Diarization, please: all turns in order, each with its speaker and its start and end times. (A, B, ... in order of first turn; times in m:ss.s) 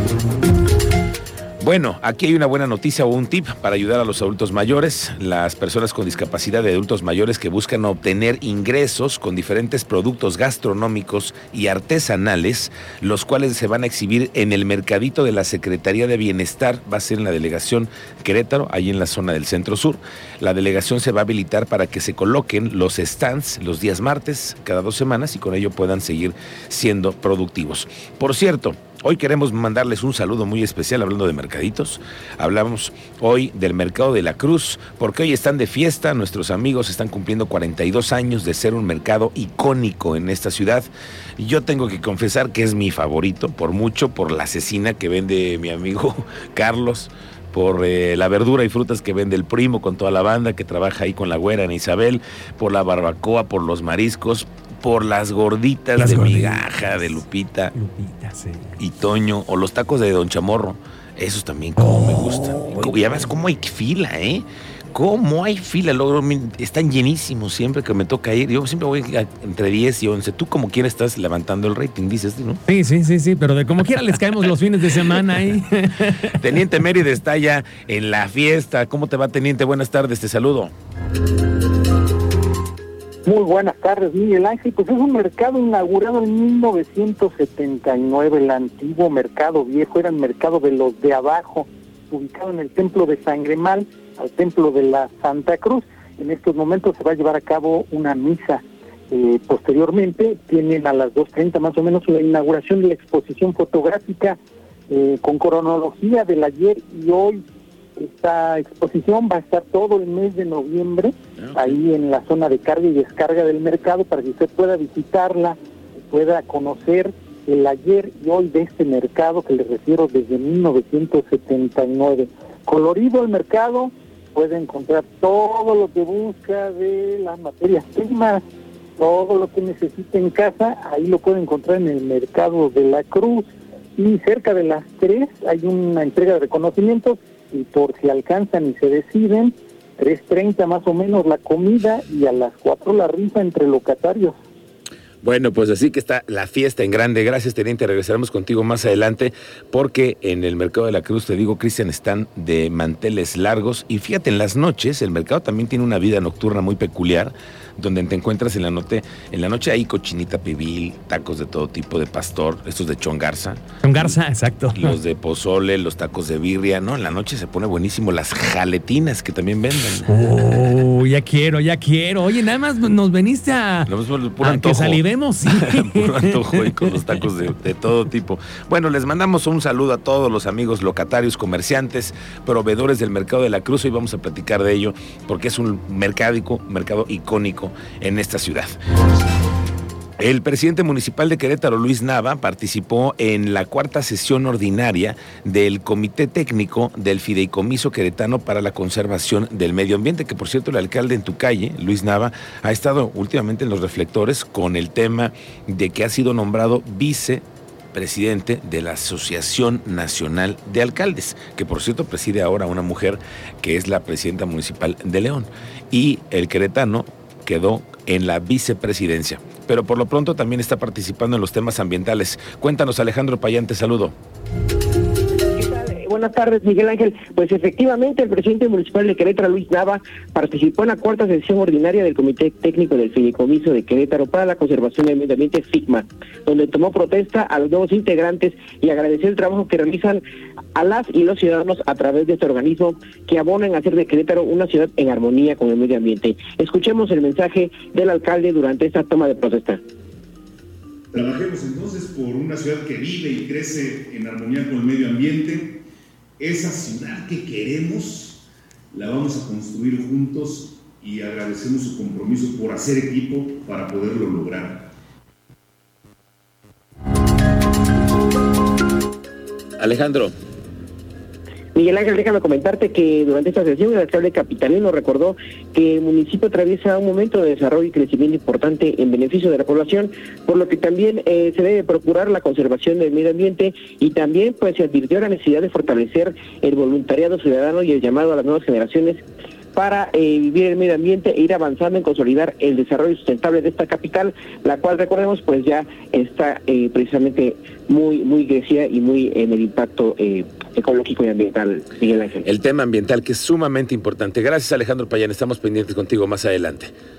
0:01.6-0:57.7 A
0:56.0-0:57.2 B
0:57.7-0:58.8 B
0:58.8-1:12.6 A
1:12.7-1:16.6 B
1:16.4-1:20.7 A
1:23.3-1:44.4 C
1:44.9-1:47.4 C
1:48.0-1:55.6 C
1:56.1-2:08.4 C
2:09.0-2:24.4 C
2:25.2-2:44.2 A
2:43.8-2:45.0 B
2:44.7-2:50.1 A
2:50.0-2:57.2 B
2:53.9-3:08.8 A
3:10.2-3:44.2 A
3:45.6-4:00.2 D
4:00.8-4:09.8 D
4:11.1-4:15.7 E
4:16.4-4:18.4 E
4:18.9-4:24.8 E
4:29.8-4:30.3 A
4:31.8-4:49.2 D
4:49.8-5:02.4 D
5:02.4-5:06.9 A